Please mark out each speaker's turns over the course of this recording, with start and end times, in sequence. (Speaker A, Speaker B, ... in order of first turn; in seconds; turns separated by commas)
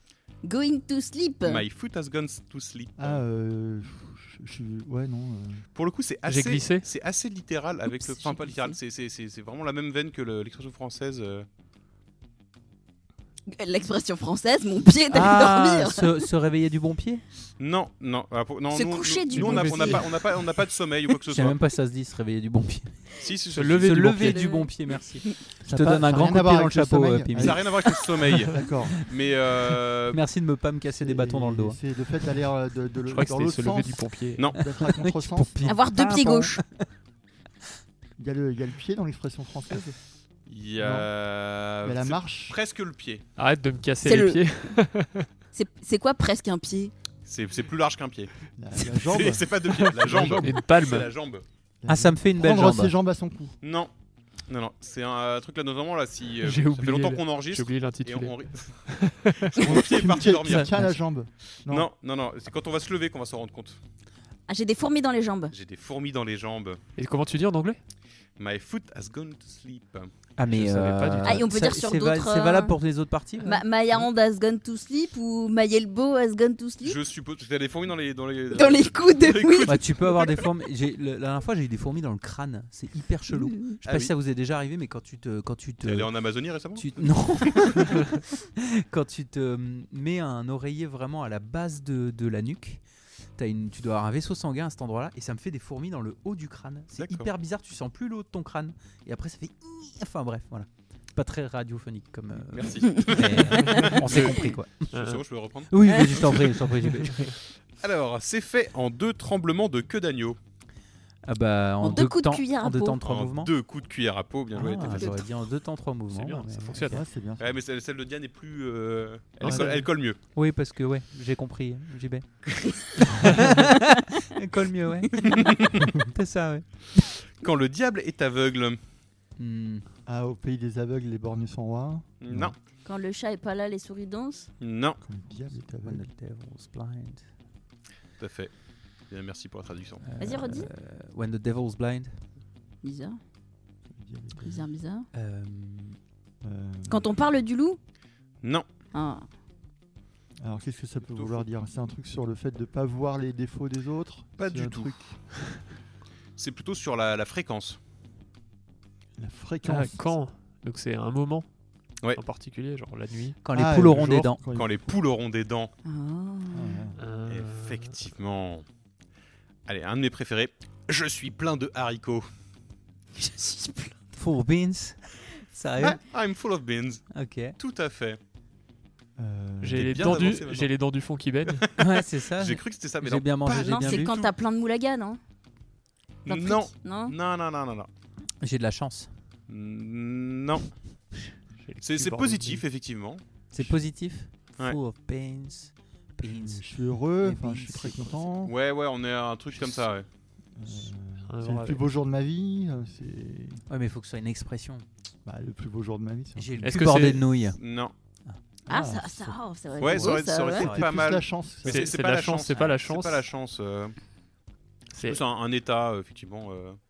Speaker A: 0.4-1.6, Speaker B: 1.4-3.2, Speaker C: 3.0-5.6, Speaker B: 5.7-11.5, Speaker D: 6.2-6.9, Speaker A: 7.9-8.8, Speaker A: 13.5-16.2, Speaker E: 15.1-17.2, Speaker B: 17.6-21.6, Speaker A: 18.7-20.1, Speaker D: 19.3-20.0, Speaker E: 21.3-23.2, Speaker B: 23.2-24.3, Speaker D: 23.5-24.4, Speaker E: 23.8-27.6, Speaker A: 24.2-24.7, Speaker C: 25.6-27.7, Speaker B: 27.4-30.2, Speaker C: 28.5-29.0, Speaker E: 30.1-31.8, Speaker C: 31.0-35.8, Speaker D: 33.1-34.4, Speaker E: 34.6-36.9, Speaker A: 35.6-36.6, Speaker C: 38.2-40.0, Speaker B: 40.5-43.2, Speaker C: 40.8-41.1, Speaker C: 41.8-42.6, Speaker D: 43.4-45.3, Speaker A: 44.0-44.5, Speaker A: 45.5-46.9, Speaker B: 47.2-48.3, Speaker C: 48.6-50.5, Speaker B: 48.9-51.4, Speaker D: 50.2-51.1, Speaker C: 51.8-53.5, Speaker E: 51.9-52.9, Speaker B: 53.6-53.9, Speaker B: 54.5-58.8, Speaker D: 56.4-59.6, Speaker B: 59.4-60.9, Speaker C: 59.6-61.9, Speaker E: 60.5-60.9, Speaker B: 61.7-63.8, Speaker A: 64.5-65.5, Speaker B: 65.5-66.8, Speaker D: 67.0-67.8, Speaker B: 68.4-70.1, Speaker E: 70.4-73.6, Speaker D: 70.5-71.5, Speaker A: 71.2-72.8, Speaker A: 73.4-77.0, Speaker B: 76.8-80.4, Speaker A: 78.5-79.8, Speaker E: 79.7-86.1, Speaker A: 83.3-83.8, Speaker B: 83.8-84.1, Speaker B: 85.8-88.0, Speaker E: 86.7-92.8, Speaker E: 93.4-104.9, Speaker B: 97.0-97.3, Speaker B: 102.5-104.2, Speaker D: 103.9-104.3, Speaker D: 104.9-105.2, Speaker B: 104.9-106.5, Speaker E: 105.7-107.3, Speaker B: 107.2-110.4, Speaker E: 111.3-113.5, Speaker A: 111.8-113.0, Speaker B: 113.0-115.2, Speaker E: 114.5-117.0, Speaker A: 114.7-115.2, Speaker D: 116.1-117.0, Speaker C: 116.9-117.5, Speaker B: 117.4-120.2, Speaker D: 119.4-119.8, Speaker E: 120.3-122.2, Speaker E: 123.3-125.4, Speaker B: 125.2-125.8, Speaker E: 126.1-126.6, Speaker B: 127.4-128.8, Speaker E: 129.4-129.8, Speaker C: 130.1-132.5, Speaker B: 132.2-132.6, Speaker A: 132.8-134.5, Speaker B: 134.6-135.0, Speaker C: 135.0-136.1, Speaker E: 135.8-137.2, Speaker B: 138.2-138.5, Speaker B: 139.0-140.1, Speaker E: 140.0-142.1, Speaker A: 140.2-140.7, Speaker A: 142.8-143.2, Speaker C: 143.9-144.6, Speaker A: 144.4-145.1, Speaker E: 145.1-146.0, Speaker C: 146.4-147.1, Speaker A: 146.9-147.8, Speaker B: 148.4-148.7, Speaker A: 148.9-149.3, Speaker C: 150.4-155.6, Speaker B: 151.0-151.4, Speaker B: 154.4-155.0, Speaker B: 156.4-157.8, Speaker C: 159.2-160.1, Speaker D: 159.6-161.5, Speaker D: 162.1-163.4, Speaker E: 163.4-164.4, Speaker C: 163.5-164.9, Speaker B: 164.5-165.7, Speaker A: 165.8-166.8, Speaker C: 166.5-167.0, Speaker D: 167.0-167.9, Speaker B: 167.3-168.6, Speaker B: 169.7-172.3, Speaker A: 173.4-173.9, Speaker E: 174.1-175.0, Speaker E: 175.5-176.0, Speaker B: 175.8-178.2, Speaker E: 177.1-177.6, Speaker C: 179.2-180.3, Speaker D: 179.6-181.6, Speaker B: 179.8-180.7, Speaker B: 181.5-184.3, Speaker E: 181.8-184.2, Speaker A: 183.5-185.2, Speaker A: 186.2-187.2, Speaker B: 186.2-187.9, Speaker E: 188.4-189.1, Speaker B: 189.5-190.7, Speaker D: 191.6-192.6, Speaker B: 191.8-193.2, Speaker E: 193.5-196.6, Speaker C: 196.2-198.5, Speaker E: 197.2-198.3, Speaker B: 198.4-200.1, Speaker C: 200.6-203.6, Speaker D: 201.3-201.8, Speaker E: 203.7-204.8, Speaker C: 205.2-206.6, Speaker E: 206.3-207.6, Speaker D: 206.6-207.3, Speaker B: 207.5-207.9, Speaker A: 208.7-210.7, Speaker C: 208.7-211.9, Speaker B: 209.8-213.9, Speaker E: 209.9-210.8, Speaker D: 211.6-213.2, Speaker D: 214.9-215.2, Speaker B: 215.0-216.8